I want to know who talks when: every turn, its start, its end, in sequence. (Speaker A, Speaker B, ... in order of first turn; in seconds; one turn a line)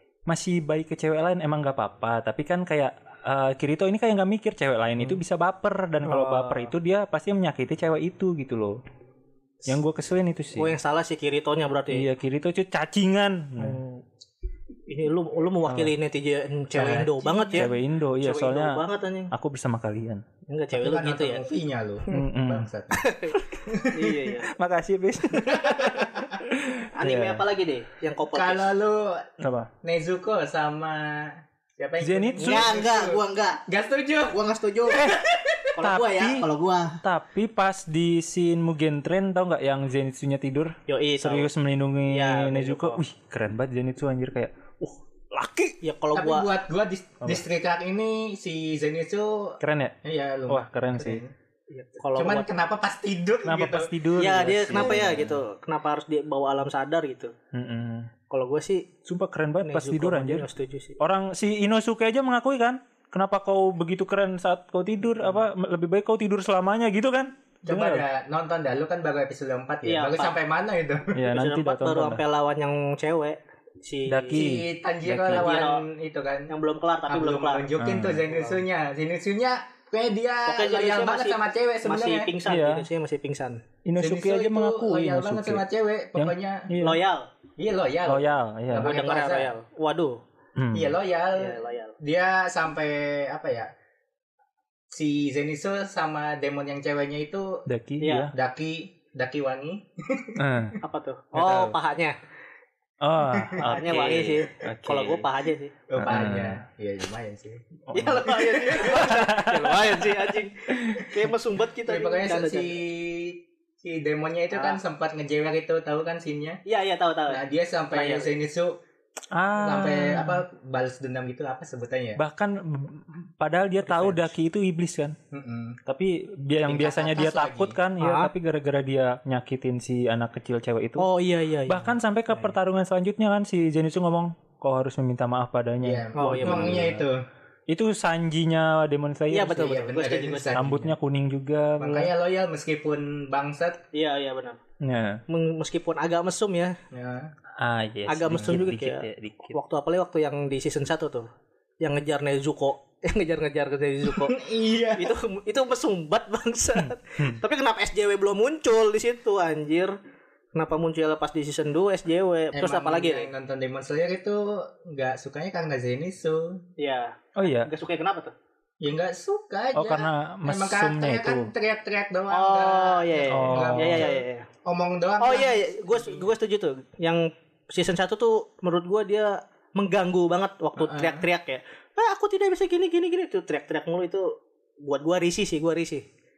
Speaker A: 0.3-8.8
Speaker B: 6.0-6.7
Speaker A: 9.7-10.7
Speaker B: 10.6-12.1
Speaker A: 11.9-13.8
Speaker B: 13.6-14.0
Speaker B: 14.9-19.3
Speaker A: 15.7-15.9
Speaker C: 16.7-17.7
Speaker A: 17.5-20.2
Speaker B: 20.5-21.4
Speaker C: 20.7-23.1
Speaker A: 22.1-22.7
Speaker B: 22.9-24.5
Speaker C: 23.7-24.4
Speaker A: 24.4-27.4
Speaker C: 25.5-26.4
Speaker B: 26.9-28.7
Speaker C: 28.3-29.2
Speaker A: 29.4-29.7
Speaker C: 29.8-35.7
Speaker A: 32.0-32.8
Speaker B: 32.4-33.6
Speaker B: 34.6-35.1
Speaker A: 34.9-35.2
Speaker B: 35.8-37.0
Speaker A: 35.8-36.5
Speaker A: 37.0-45.8
Speaker B: 40.9-41.5
Speaker B: 42.1-43.0
Speaker B: 45.8-46.5
Speaker C: 46.1-51.3
Speaker A: 49.6-50.0
Speaker A: 50.5-51.2
Speaker B: 51.7-52.5
Speaker C: 52.1-53.9
Speaker A: 53.5-55.4
Speaker B: 54.2-57.3
Speaker C: 54.7-55.3
Speaker A: 57.5-58.1
Speaker B: 58.3-58.9
Speaker A: 59.1-60.5
Speaker B: 59.6-61.0
Speaker A: 61.0-68.0
Speaker C: 67.7-71.1
Speaker B: 69.8-70.3
Speaker A: 71.1-72.2
Speaker B: 71.3-74.5
Speaker A: 74.1-75.5
Speaker C: 74.3-76.5
Speaker B: 75.3-75.9
Speaker B: 76.5-77.7
Speaker C: 77.1-82.3
Speaker A: 77.8-78.2
Speaker B: 78.3-78.6
Speaker B: 80.5-83.6
Speaker A: 82.5-82.9
Speaker A: 83.8-85.6
Speaker C: 84.0-86.7
Speaker A: 86.2-87.0
Speaker B: 86.8-87.3
Speaker C: 87.6-89.5
Speaker A: 88.1-88.9
Speaker B: 88.8-90.2
Speaker A: 90.6-91.0
Speaker C: 90.7-93.7
Speaker B: 91.4-92.0
Speaker C: 94.9-97.6
Speaker A: 97.7-98.3
Speaker B: 98.0-98.3
Speaker C: 98.3-100.4
Speaker A: 100.4-100.8
Speaker B: 100.8-102.2
Speaker A: 101.4-101.7
Speaker A: 103.0-105.3
Speaker C: 103.3-103.7
Speaker B: 103.7-105.8
Speaker C: 105.9-109.1
Speaker A: 106.0-106.6
Speaker A: 107.9-111.2
Speaker B: 107.9-112.8
Speaker C: 111.9-116.6
Speaker B: 114.5-114.8
Speaker B: 116.7-117.4
Speaker C: 117.3-118.8
Speaker B: 117.9-118.3
Speaker A: 119.3-120.4
Speaker C: 119.6-122.2
Speaker A: 122.2-125.2
Speaker B: 123.9-124.3
Speaker C: 125.3-125.8
Speaker A: 125.9-131.1
Speaker C: 126.7-127.8
Speaker B: 128.0-128.3
Speaker B: 131.0-132.5
Speaker A: 131.7-137.1
Speaker C: 135.8-137.2
Speaker B: 136.2-136.9
Speaker A: 137.7-139.8
Speaker B: 139.3-140.8
Speaker C: 139.5-140.8
Speaker A: 140.5-142.1
Speaker C: 141.8-143.8
Speaker B: 143.9-144.6
Speaker A: 144.8-145.2
Speaker B: 145.3-146.8
Speaker C: 146.9-147.3
Speaker A: 147.6-149.6
Speaker B: 148.1-151.3
Speaker B: 151.8-154.4
Speaker C: 154.1-155.2
Speaker B: 154.9-159.9
Speaker A: 156.8-157.4
Speaker B: 160.6-163.3
Speaker C: 162.5-166.6
Speaker B: 166.8-168.3
Speaker A: 167.4-167.7
Speaker C: 168.8-176.3
Speaker A: 169.8-171.5
Speaker B: 172.3-174.5
Speaker A: 173.3-174.1
Speaker B: 175.2-184.3
Speaker C: 180.8-181.2
Speaker B: 184.8-186.1